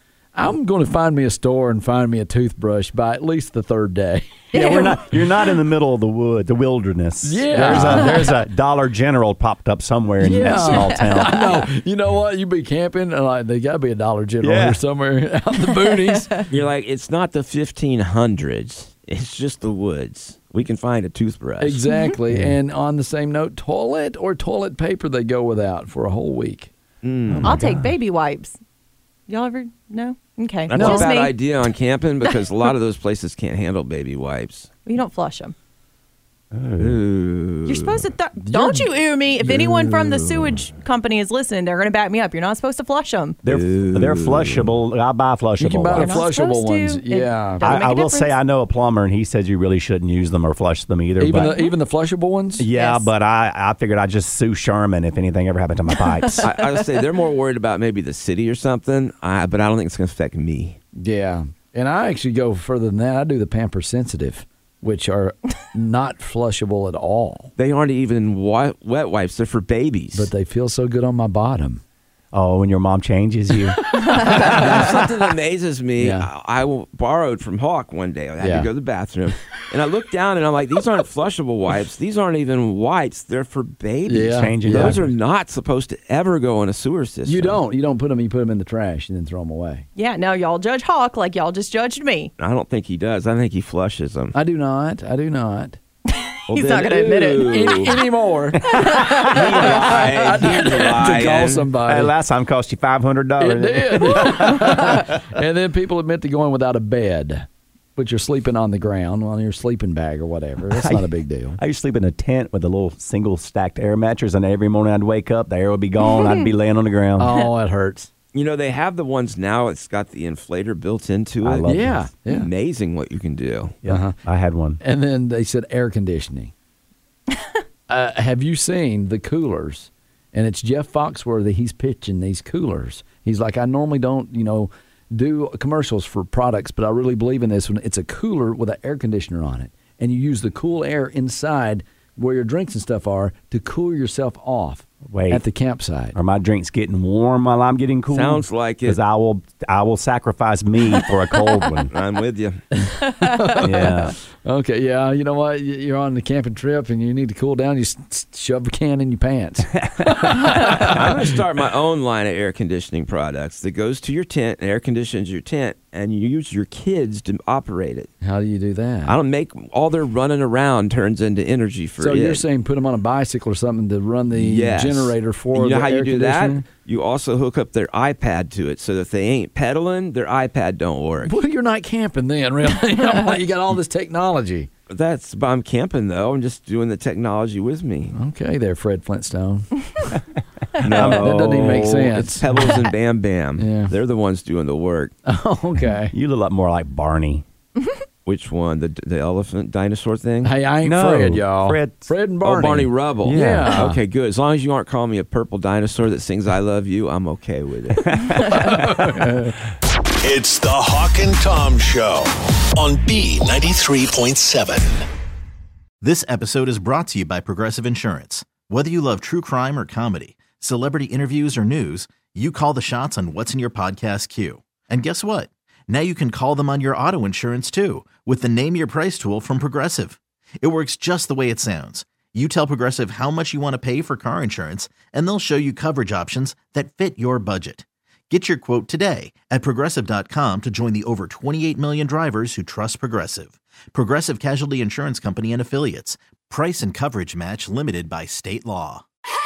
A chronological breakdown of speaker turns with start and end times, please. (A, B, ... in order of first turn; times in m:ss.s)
0:00.4-0:04.5 A
0:04.5-0:05.0 B
0:04.5-0:11.6 C
0:07.2-0:08.3 A
0:10.2-0:16.4 A
0:10.4-0:11.5 B
0:14.4-0:14.8 C
0:15.8-0:16.4 B
0:16.5-0:21.8 D
0:21.6-0:26.7 A
0:21.9-0:22.2 B
0:22.3-0:22.6 C
0:27.0-0:27.6 D
0:27.3-0:27.9 C
0:27.3-0:27.8 A
0:27.4-0:28.6 B
0:29.3-0:31.4 B
0:30.7-0:34.7 D
0:30.8-0:31.0 A
0:34.9-0:35.5 B
0:36.5-0:37.0 C
0:36.8-0:38.1 D
0:37.7-0:43.4 B
0:38.4-0:38.9 A
0:39.5-0:40.6 D
0:43.4-0:46.3 C
0:43.5-0:44.7 D
0:45.6-0:47.7 A
0:45.9-0:48.4 B
0:47.6-0:51.6 C
0:51.2-0:52.7 A
0:51.4-0:51.7 B
0:52.6-0:56.5 C
0:52.7-0:53.1 B
0:56.4-1:00.8 D
1:01.0-1:07.5 A
1:07.6-1:10.3 D
1:10.1-1:11.8 A
1:12.3-1:14.6 C
1:14.1-1:27.6 D
1:14.4-1:15.0 A
1:16.0-1:16.3 A
1:18.4-1:18.7 A
1:24.1-1:25.0 A
1:24.3-1:25.1 C
1:27.2-1:29.9 A
1:30.0-1:32.3 B
1:32.4-1:34.4 D
1:34.3-1:35.8 A
1:36.1-1:38.0 B
1:36.5-1:38.0 D
1:37.4-1:42.1 A
1:38.7-1:39.7 B
1:38.8-1:41.7 D
1:41.8-1:45.0 C
1:43.4-1:51.6 A
1:50.7-1:57.3 C
1:56.1-1:56.4 B
1:57.2-1:58.1 A
1:58.3-2:03.8 D
2:01.4-2:02.1 C
2:01.7-2:02.5 A
2:03.8-2:04.8 C
2:03.9-2:04.2 A
2:04.8-2:06.5 A
2:07.9-2:26.2 A
2:25.1-2:25.4 C
2:26.2-2:31.9 C
2:28.1-2:29.0 D
2:31.9-2:32.6 D
2:32.7-2:41.4 A
2:33.6-2:34.2 C
2:39.8-2:41.2 C
2:40.5-2:48.1 D
2:48.2-2:49.2 A
2:49.1-2:52.4 D
2:52.0-2:56.6 A
2:54.3-3:01.3 D
3:01.3-3:04.7 A
3:04.9-3:08.2 D
3:08.1-3:10.2 A
3:10.8-3:12.1 C
3:10.8-3:15.1 D
3:11.0-3:12.6 A
3:13.6-3:13.9 A
3:15.3-3:16.1 A
3:16.1-3:17.4 C
3:18.3-3:20.5 D
3:20.4-3:24.0 A
3:20.8-3:22.1 C
3:22.4-3:28.3 D
3:23.2-3:24.0 C
3:28.1-3:28.7 C
3:28.4-3:29.6 A
3:30.2-3:35.1 E
3:36.0-4:09.0 F